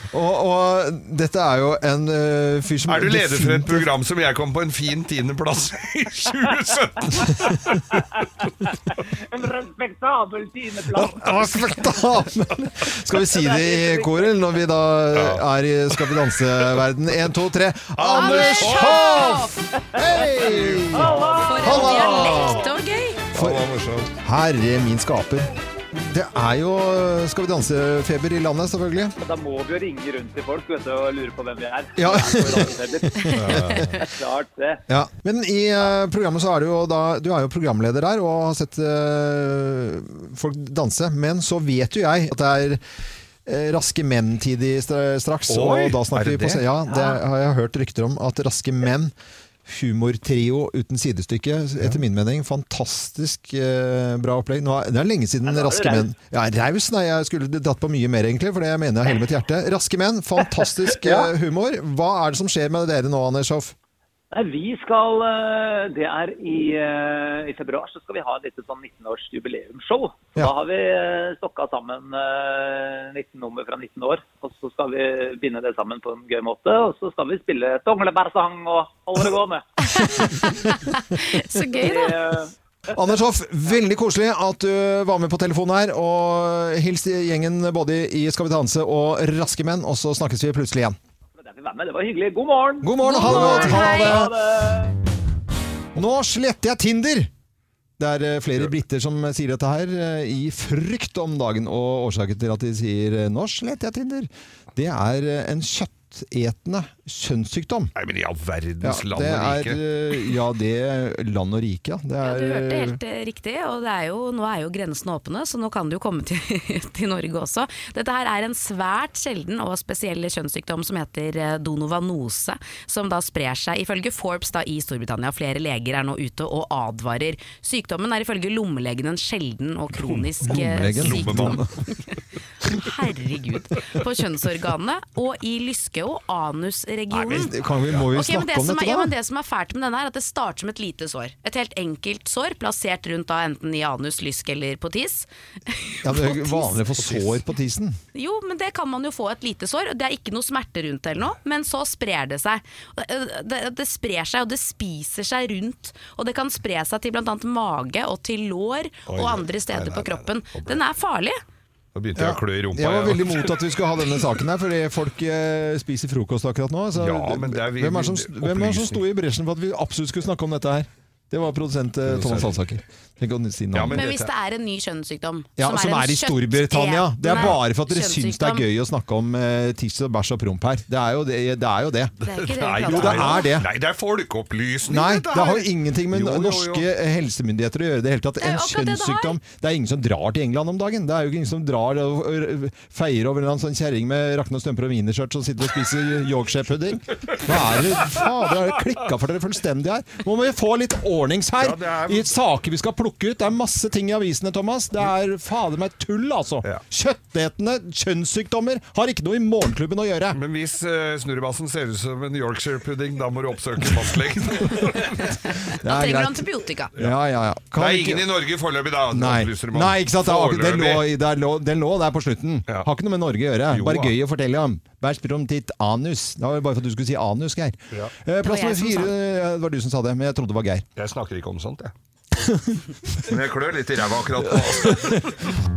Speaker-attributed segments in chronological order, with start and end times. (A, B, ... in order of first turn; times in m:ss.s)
0:00.1-0:03.9 A
0:02.9-0:07.6 B
0:08.9-0:11.5 C
0:10.9-0:22.6 A
0:13.2-0:14.3 C
0:15.1-0:16.9 B
0:18.0-0:19.2 B
0:18.1-0:19.5 D
0:20.4-0:22.5 B
0:21.0-0:21.8 C
0:21.5-0:23.2 D
0:23.3-0:23.7 A
0:23.3-0:24.1 B
0:24.2-0:29.1 A
0:29.2-0:34.8 C
0:32.0-0:34.0 A
0:33.4-0:33.9 B
0:34.9-0:42.8 A
0:43.5-0:49.1 A
0:45.5-0:46.6 B
0:49.7-1:03.7 A
0:55.4-0:56.1 C
1:01.0-1:01.3 C
1:04.3-1:19.6 C
1:20.6-1:22.2 D
1:21.6-1:22.5 C
1:22.9-1:31.0 A
1:31.4-1:34.9 C
1:32.8-1:34.4 A
1:33.0-1:34.3 D
1:36.0-1:37.3 A
1:38.0-1:47.9 A
1:48.0-1:49.8 B
1:48.8-1:53.0 A
1:52.2-2:11.6 D
2:09.9-2:11.6 B
2:10.4-2:11.7 A
2:12.8-2:17.5 D
2:17.2-2:19.1 A
2:17.2-2:18.1 B
2:18.1-2:26.8 D
2:26.0-2:28.0 A
2:27.0-2:27.4 B
2:28.2-2:41.4 D
2:39.1-2:40.8 B
2:42.0-2:43.6 B
2:42.2-2:54.0 A
2:46.9-2:49.0 B
2:52.1-2:52.6 B
2:53.7-2:54.3 B
2:53.9-2:58.6 D
2:55.6-3:02.1 A
2:57.3-2:57.6 B
3:02.2-3:06.9 B
3:02.2-3:03.5 D
3:02.9-3:03.7 A
3:04.9-3:30.4 A
3:08.4-3:09.4 D
3:21.6-3:22.3 B
3:30.3-3:35.3 B
3:35.8-3:38.3 A
3:35.8-3:36.9 D
3:37.8-3:41.1 B
3:39.1-3:50.9 A
3:43.7-3:44.1 B
3:48.4-3:49.1 D
3:51.0-3:51.9 B
3:53.3-3:55.3 B